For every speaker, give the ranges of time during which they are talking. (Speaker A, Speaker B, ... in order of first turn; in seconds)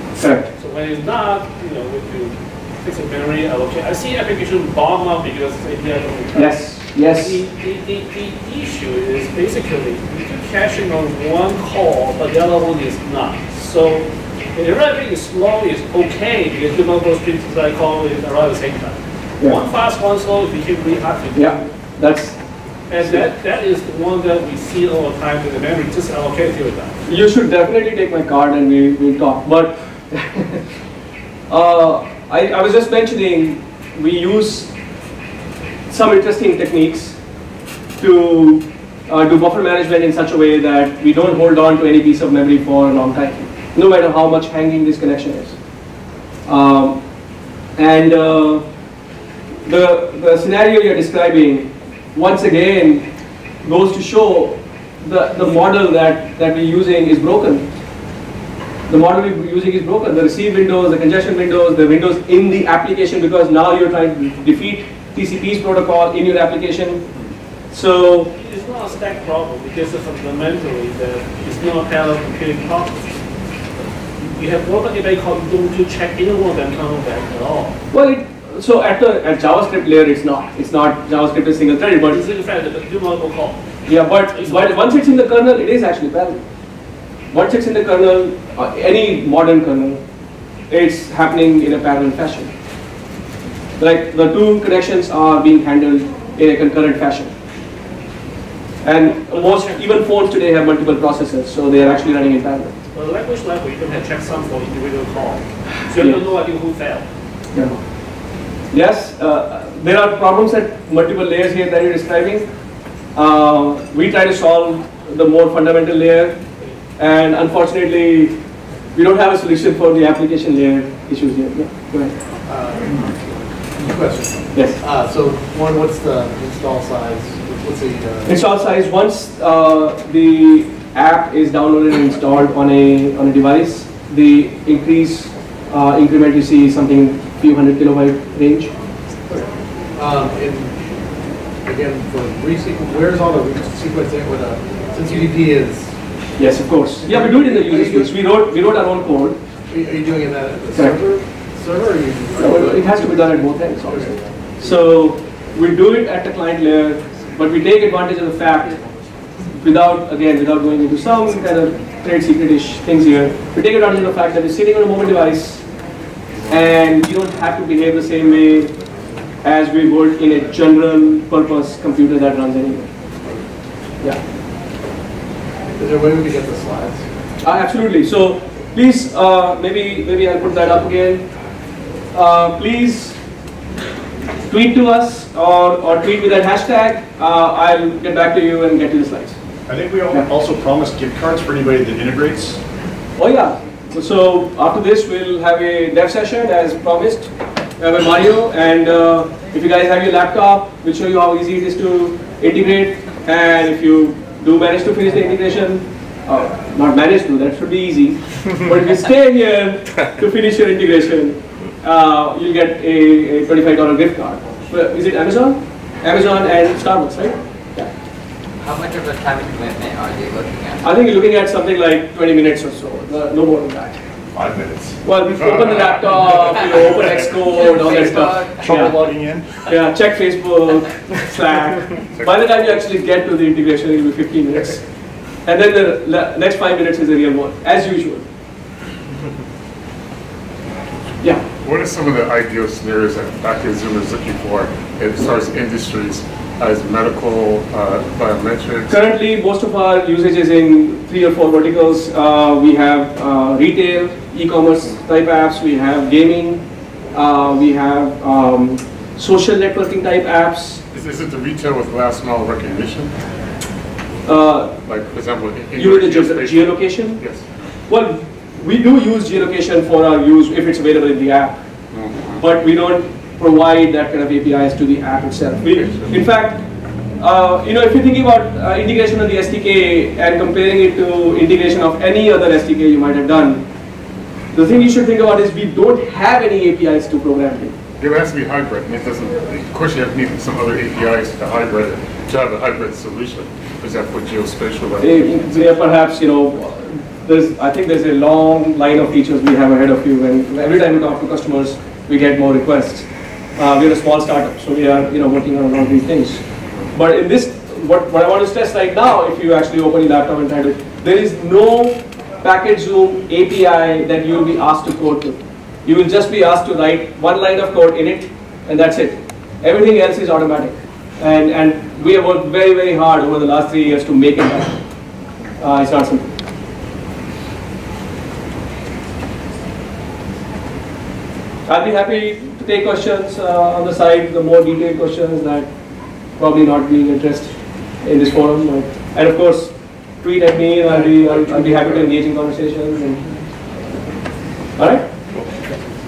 Speaker A: 0.2-0.5, 6.3-7.4, 19.4-19.6, 21.3-22.4, 23.0-23.3, 27.1-30.6, 31.5-34.7, 35.9-37.2, 38.0-45.5, 46.5-47.0, 47.8-48.6, 49.6-53.0, 53.6-57.7, 58.9-67.0, 67.7-68.3, 77.9-82.2, 83.8-86.4, 87.3-90.0, 90.7-92.5, 93.8-97.3, 98.8-102.8, 106.0-106.3, 107.5-107.8, 108.7-112.5, 113.1-116.4, 117.0-118.3, 118.9-122.1, 124.5-124.8, 128.2-138.7, 146.4-149.4, 152.3-158.8, 159.6-165.6, 166.5-168.7, 169.4-172.9, 177.4-181.2, 182.1-183.2, 184.5-189.4, 193.2-217.9, 220.8-224.0, 225.0-228.9, 229.7-234.8, 235.4-238.2, 248.9-260.8, 264.2-264.7, 265.7-267.2, 267.9-271.6, 272.4-276.6, 277.2-283.6, 284.5-287.7, 295.0-306.4, 306.9-324.8, 325.6-326.3, 331.7-335.7, 336.4-343.3, 344.8-345.1
Speaker B: 0.5-21.6, 22.9-26.9, 68.4-73.1, 74.2-77.8, 82.0-83.6, 84.3-85.1, 99.1-100.0, 102.9-107.0
Speaker C: 122.5-128.4, 139.9-140.8, 141.6-145.9, 147.0-148.1, 149.7-154.8, 175.8-177.0, 228.7-229.4
Speaker D: 189.7-192.6
Speaker E: 218.6-220.8, 227.7-228.9
Speaker F: 224.4-228.0, 232.1-232.9, 241.6-249.1, 260.9-263.1, 264.8-267.4, 271.9-272.6, 288.0-295.7